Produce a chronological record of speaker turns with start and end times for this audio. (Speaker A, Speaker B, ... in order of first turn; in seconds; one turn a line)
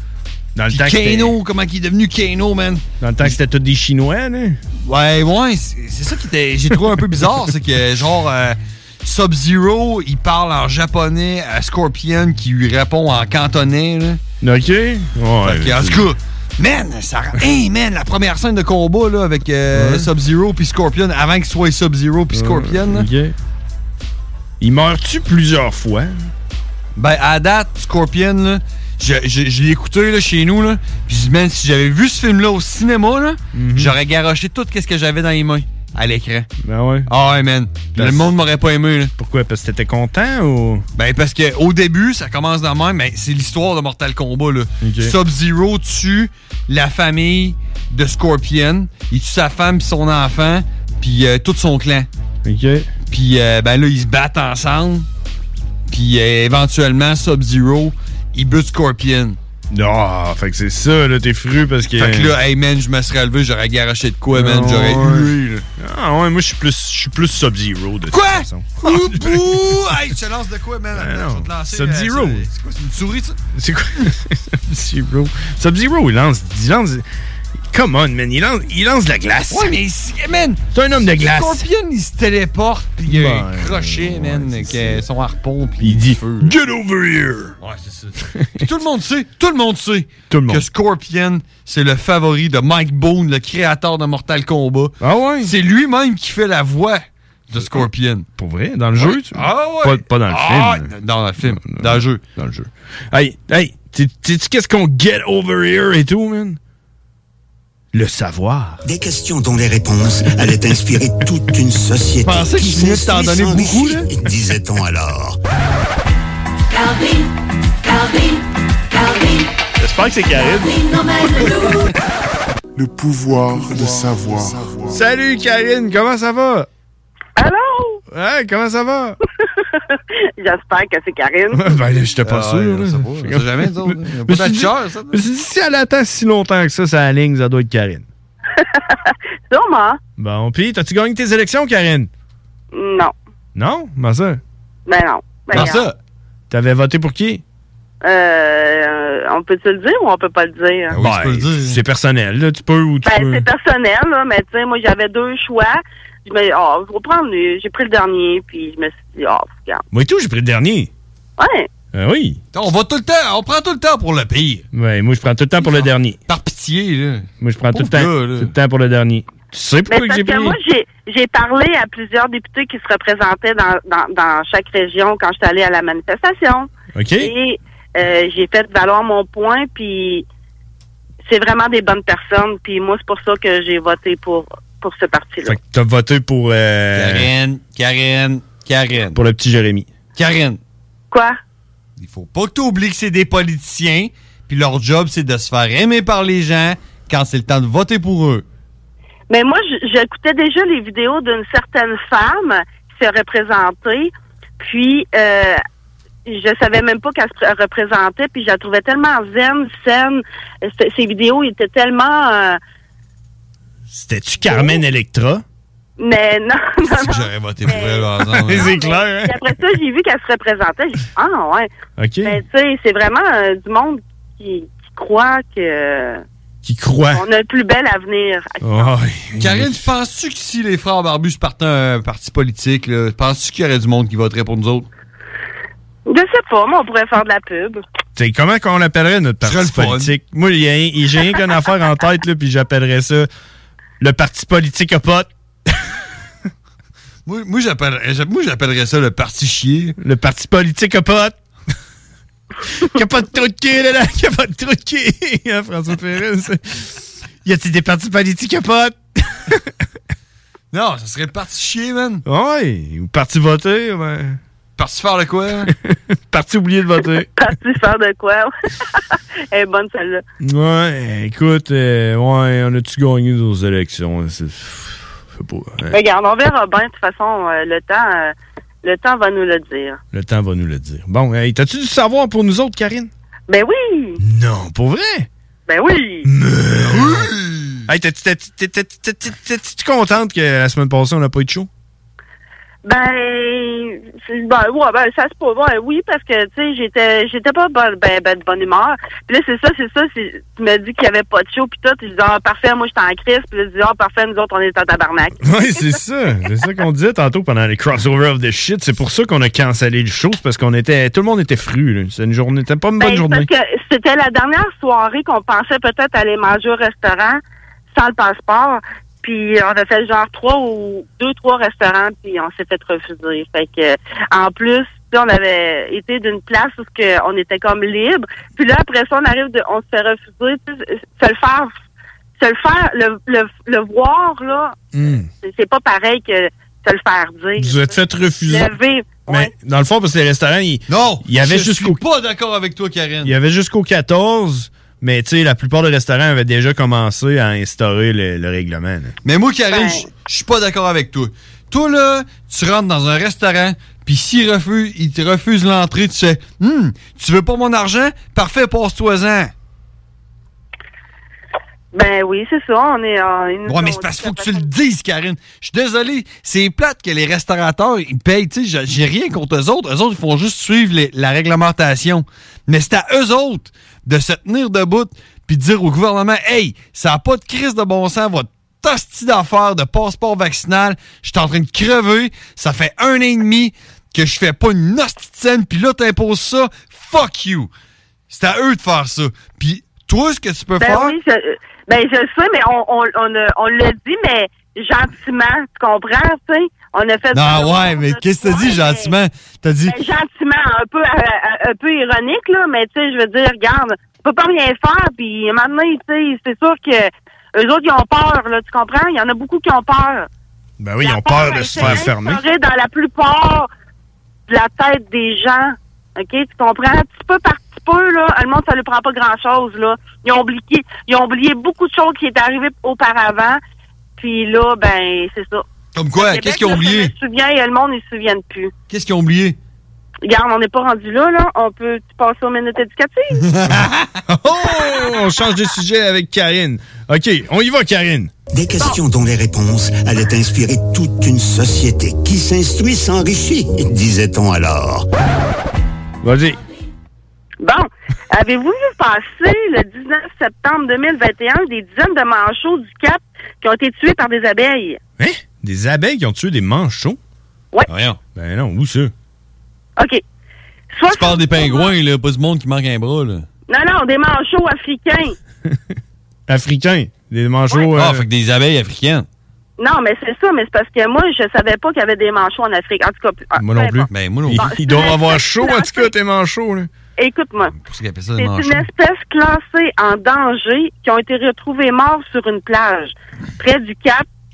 Speaker A: 0.5-1.3
Speaker B: 0.7-3.4
Speaker A: 3.0-4.6
Speaker B: 4.8-14.2
Speaker A: 14.4-16.1
Speaker B: 15.4-23.1
Speaker A: 19.7-20.1
Speaker A: 22.3-23.3
Speaker A: 24.6-26.1
Speaker B: 27.0-36.5
Speaker A: 33.5-33.9
Speaker A: 36.6-37.1
Speaker B: 37.1-39.1
Speaker A: 37.9-38.4
Speaker A: 39.2-40.8
Speaker B: 41.0-52.1
Speaker A: 44.8-45.1
Speaker A: 52.4-52.9
Speaker B: 53.1-55.0
Speaker B: 55.9-59.4
Speaker A: 59.7-62.3
Speaker B: 62.0-65.6
Speaker A: 64.3-70.0
Speaker B: 68.1-73.4
Speaker A: 70.9-72.5
Speaker A: 73.5-77.0
Speaker A: 77.7-79.8
Speaker B: 79.5-80.6
Speaker A: 80.7-81.6
Speaker B: 81.1-86.5
Speaker A: 83.1-85.0
Speaker A: 85.8-87.5
Speaker B: 87.6-98.3
Speaker A: 90.3-90.6
Speaker A: 95.0-95.5
Speaker A: 98.4-100.9
Speaker B: 99.0-102.2
Speaker A: 101.4-106.6
Speaker A: 107.9-108.8
Speaker C: 108.8-115.3
Speaker B: 112.2-114.1
Speaker A: 119.8-121.4
Speaker D: 122.8-125.0
Speaker A: 124.9-126.7
Speaker E: 127.4-128.0
Speaker A: 128.1-129.2
Speaker E: 130.4-131.6
Speaker A: 131.5-133.6
Speaker B: 132.2-135.2
Speaker A: 134.3-138.1
Speaker E: 138.6-140.0
Speaker A: 140.2-142.1
Speaker E: 142.7-143.1
Speaker A: 143.6-144.4
Speaker E: 144.9-145.8
Speaker B: 145.5-145.9
Speaker A: 146.5-147.4
Speaker E: 148.0-151.0
Speaker B: 150.9-151.8
Speaker A: 150.9-153.4
Speaker E: 153.0-159.8
Speaker A: 159.9-160.9
Speaker E: 161.4-161.7
Speaker A: 161.9-162.4
Speaker B: 162.5-164.7
Speaker A: 164.7-166.2
Speaker B: 165.6-168.5
Speaker A: 167.4-170.6
Speaker E: 169.9-180.2
Speaker A: 176.9-177.3
Speaker E: 181.2-185.6
Speaker A: 185.4-187.3
Speaker B: 186.9-189.2
Speaker A: 189.1-189.9
Speaker B: 190.1-190.6
Speaker E: 191.1-191.4
Speaker B: 192.0-198.4
Speaker E: 199.3-205.6
Speaker E: 206.3-212.6
Speaker A: 213.9-215.4
Speaker E: 214.5-214.8
Speaker E: 216.0-221.7
Speaker B: 216.9-218.8
Speaker A: 218.3-219.4
Speaker A: 222.0-222.4
Speaker E: 222.2-226.2
Speaker A: 226.6-227.2
Speaker E: 227.1-228.9
Speaker A: 228.6-229.9
Speaker B: 229.4-234.9
Speaker E: 236.1-237.8
Speaker A: 238.2-243.3
Speaker B: 239.4-240.1
Speaker A: 244.0-245.7
Speaker B: 247.2-249.9
Speaker A: 250.0-251.3
Speaker A: 252.8-259.6
Speaker B: 260.7-262.2
Speaker A: 262.2-264.4
Speaker B: 264.8-265.7
Speaker A: 265.8-267.3
Speaker E: 267.4-268.5
Speaker E: 269.5-270.2
Speaker A: 270.4-275.9
Speaker E: 275.9-280.0
Speaker A: 280.1-283.1
Speaker E: 283.5-284.2
Speaker A: 284.2-285.3
Speaker E: 285.7-286.3
Speaker A: 286.2-287.3
Speaker B: 286.8-287.9
Speaker A: 287.9-291.7
Speaker E: 292.8-305.8
Speaker A: 305.4-313.5
Speaker E: 313.0-317.4
Speaker E: 317.9-331.7
Speaker E: 332.4-334.8
Speaker A: 334.9-335.3
Speaker E: 335.4-337.9
Speaker A: 337.6-338.7
Speaker E: 338.5-339.5
Speaker A: 339.3-342.0
Speaker B: 340.9-343.3
Speaker A: 343.2-349.1
Speaker B: 349.2-359.5
Speaker E: 349.7-350.1
Speaker E: 361.9-364.7
Speaker B: 363.6-387.7
Speaker B: 388.3-391.1
Speaker E: 390.8-399.1
Speaker B: 397.3-399.9
Speaker E: 399.9-410.3
Speaker A: 410.8-412.4
Speaker E: 411.0-413.7
Speaker E: 414.5-423.6
Speaker E: 424.2-425.6
Speaker B: 425.9-427.1
Speaker E: 426.1-428.7
Speaker B: 428.9-429.6
Speaker E: 430.2-433.4
Speaker B: 433.4-434.2
Speaker A: 434.3-438.3
Speaker C: 438.5-445.1
Speaker A: 446.2-446.6
Speaker E: 447.6-455.0
Speaker A: 455.2-457.2
Speaker B: 457.9-458.2
Speaker A: 458.4-459.1
Speaker E: 460.0-460.2
Speaker E: 460.9-461.9
Speaker B: 461.1-463.4
Speaker E: 463.7-465.4
Speaker A: 466.5-468.2
Speaker B: 467.9-469.2
Speaker E: 469.8-476.1
Speaker A: 473.6-476.9
Speaker B: 474.1-474.7
Speaker E: 477.2-477.7
Speaker B: 477.7-478.9
Speaker E: 478.4-484.2